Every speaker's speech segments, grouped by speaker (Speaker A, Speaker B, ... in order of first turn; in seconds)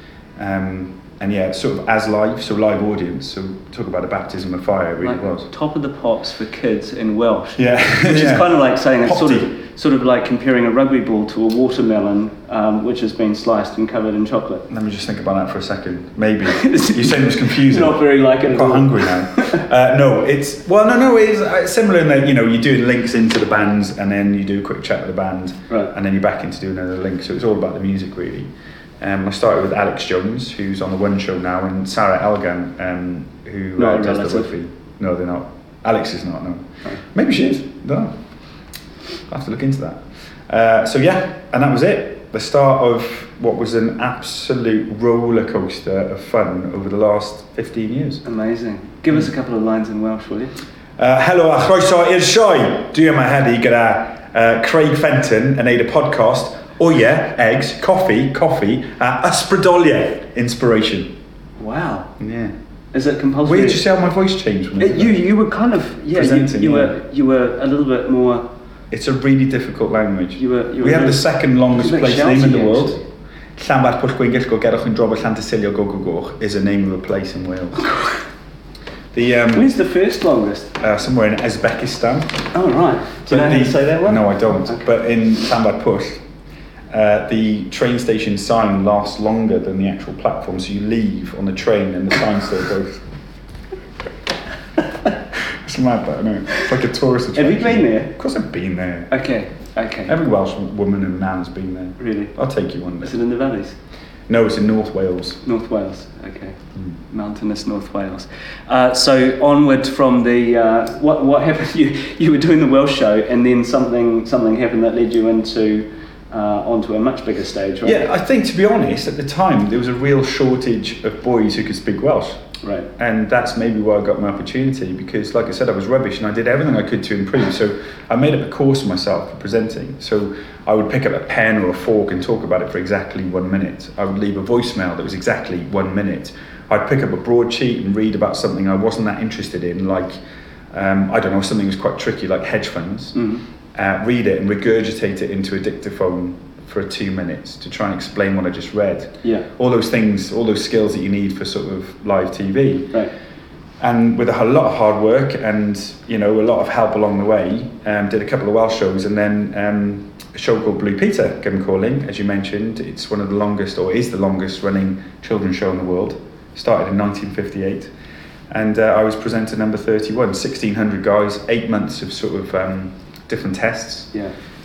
Speaker A: 0.4-5.5, 7.6-9.5, 14.7-28.5, 29.0-38.1, 39.3-48.2, 51.0-61.1, 62.2-62.5, 63.5-65.2, 66.1-67.0, 68.9-73.0, 73.6-78.1, 79.1-79.7, 80.8-82.5, 83.3-86.2, 86.9-93.0, 95.4-99.1, 100.1-103.2, 104.3-105.4, 117.8-122.4, 123.0-140.2, 140.7-143.2, 143.8-153.0, 153.8-167.9, 168.5-174.1
Speaker B: 5.0-14.6, 16.5-19.6, 33.8-34.5, 48.2-50.5, 61.6-62.1, 62.9-63.9, 64.8-68.5, 70.4-73.0, 79.5-80.7, 82.5-84.9, 97.3-98.1, 99.1-100.1, 102.0-102.3, 103.0-103.8, 105.4-106.6, 107.1-118.0, 122.6-122.9, 143.2-143.4